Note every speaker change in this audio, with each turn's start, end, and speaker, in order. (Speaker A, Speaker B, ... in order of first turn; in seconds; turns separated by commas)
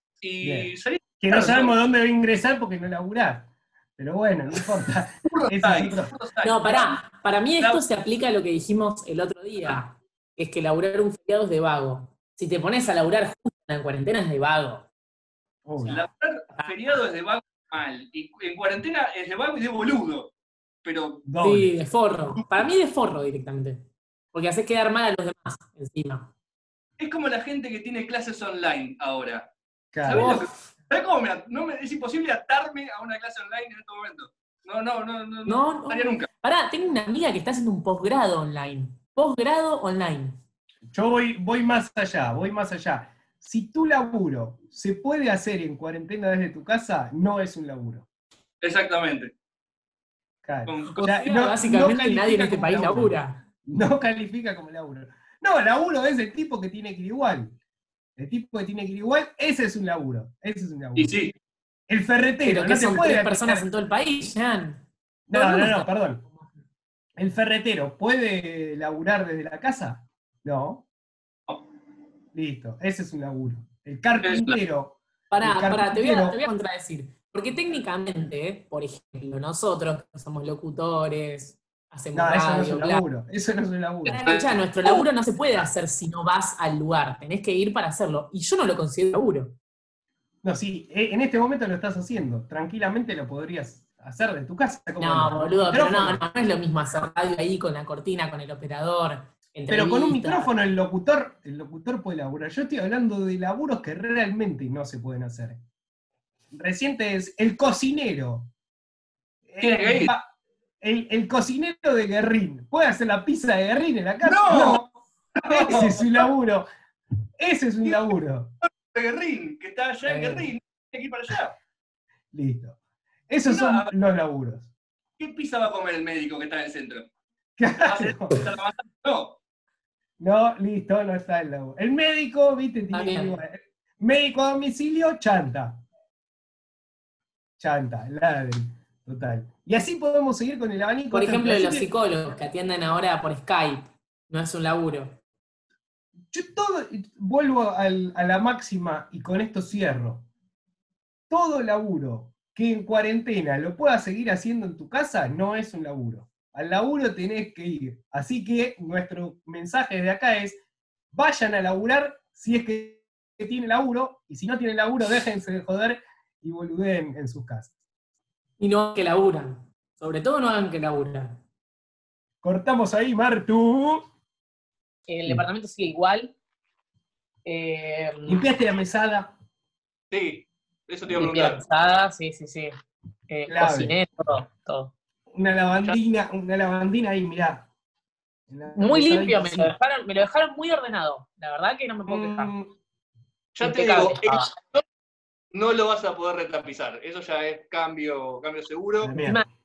Speaker A: 0.2-1.7, Speaker B: 0.4-6.1, Speaker A: 5.3-7.0, Speaker C: 6.4-14.9, Speaker B: 15.7-16.0, Speaker A: 15.9-20.3, Speaker A: 20.8-21.2, Speaker B: 21.2-21.8, Speaker C: 21.4-26.3, Speaker A: 27.0-29.5, Speaker B: 29.9-30.3, Speaker A: 30.0-36.3, Speaker C: 30.1-30.4, Speaker C: 35.5-40.4, Speaker B: 40.9-48.1, Speaker A: 48.6-49.3, Speaker B: 50.4-57.6, Speaker A: 50.7-51.0, Speaker C: 50.9-53.4, Speaker B: 58.2-61.2, Speaker A: 61.0-61.3, Speaker B: 61.9-63.7, Speaker C: 62.4-65.9, Speaker B: 65.3-66.2, Speaker B: 67.2-70.9, Speaker B: 72.3-76.4, Speaker A: 74.2-74.6, Speaker C: 75.3-83.1, Speaker B: 82.1-84.3, Speaker C: 84.0-89.6, Speaker A: 84.2-85.1, Speaker B: 90.4-96.2, Speaker C: 95.0-100.5, Speaker B: 99.7-105.6, Speaker B: 106.5-108.5, Speaker B: 109.5-110.3, Speaker A: 109.6-110.1, Speaker B: 110.8-114.9, Speaker A: 114.2-116.3, Speaker B: 115.5-116.7, Speaker B: 117.4-118.5, Speaker A: 118.9-121.6, Speaker B: 120.1-120.5, Speaker B: 122.3-122.8, Speaker B: 123.3-124.7, Speaker A: 123.5-123.9, Speaker A: 125.2-127.1, Speaker B: 127.6-128.4, Speaker A: 127.8-129.4, Speaker B: 130.2-135.8, Speaker C: 132.9-133.4, Speaker B: 137.6-141.9, Speaker C: 141.1-145.2, Speaker B: 146.3-150.3, Speaker B: 151.3-160.6, Speaker B: 161.1-167.7, Speaker C: 168.6-171.4, Speaker B: 172.4-174.0, Speaker C: 175.1-176.4, Speaker C: 177.4-178.5, Speaker B: 178.3-179.3, Speaker A: 180.1-181.6, Speaker C: 181.2-182.7, Speaker C: 183.3-184.9, Speaker B: 183.5-184.0, Speaker B: 185.3-187.7, Speaker B: 188.5-189.7, Speaker C: 188.7-192.5, Speaker B: 192.1-192.7, Speaker A: 193.5-194.8, Speaker C: 193.6-194.5, Speaker A: 195.5-199.2, Speaker B: 199.0-199.4, Speaker C: 199.2-199.5